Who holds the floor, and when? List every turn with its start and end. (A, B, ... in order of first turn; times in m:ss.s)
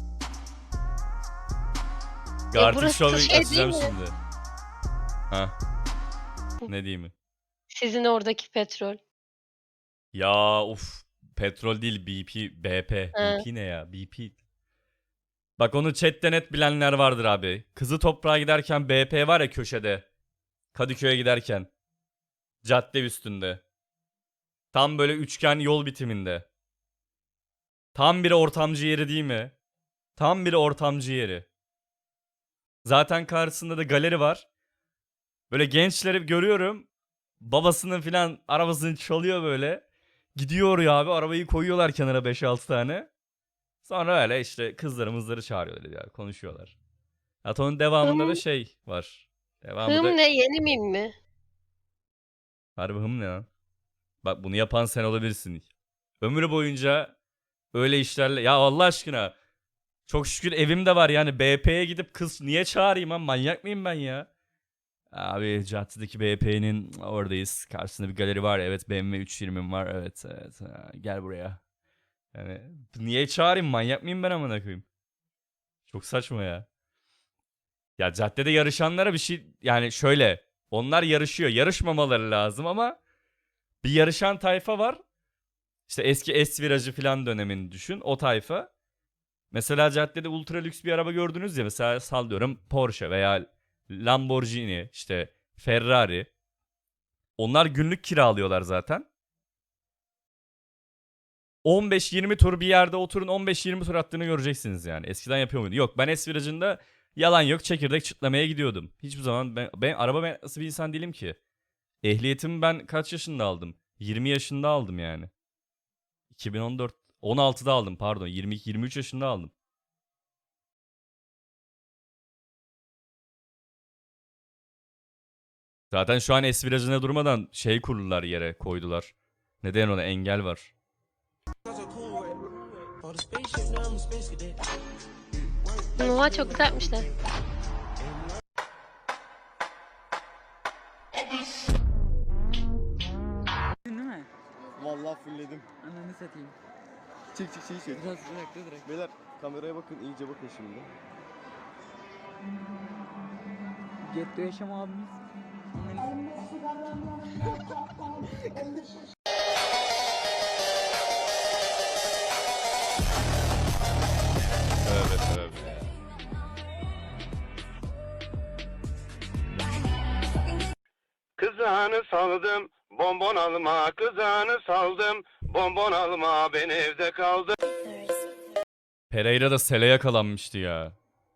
0:02.5-0:03.9 A
0:02.5-0:04.2 B
0:06.7-0:07.1 B
0:07.7-0:09.0 A
0:10.1-0:14.4 B
0:13.2-0:13.4 A
0:15.6-0:20.1 B
0:20.7-0:21.7 B
0:22.6-0:23.6 B
0:24.7-0:26.5 B
0:28.0-0:29.5 B
0:30.2-0:31.5 B
0:32.8-0:34.5 B
0:35.5-0:36.9 B
0:37.4-0:43.1 B
0:43.8-0:46.8 B
0:47.4-0:50.2 B
0:48.0-0:48.4 A
0:49.9-0:51.1 A
0:52.8-0:53.5 B
0:54.2-0:55.7 B
0:56.2-0:57.1 B
0:57.7-0:59.4 B
1:00.1-1:04.3 B
1:05.1-1:11.6 B
1:12.3-1:14.8 B
1:15.9-1:16.7 B
1:18.0-1:23.0 B
1:23.8-1:25.0 B
1:25.9-1:28.7 B
1:29.5-1:36.3 B
1:37.4-1:39.1 B
1:41.6-1:51.4 B
1:52.0-1:55.3 B
1:56.3-1:59.5 B
2:05.9-2:10.7 B
2:16.0-2:17.1 A
2:23.9-2:24.3 C
2:24.8-2:25.6 D
2:25.8-2:26.5 C
2:27.3-2:28.0 D
2:27.9-2:29.0 C
2:28.8-2:30.9 D
2:34.1-2:35.1 C
2:35.8-2:36.0 C
2:44.8-2:45.9 B
2:51.4-2:57.6 E
2:59.1-3:01.0 B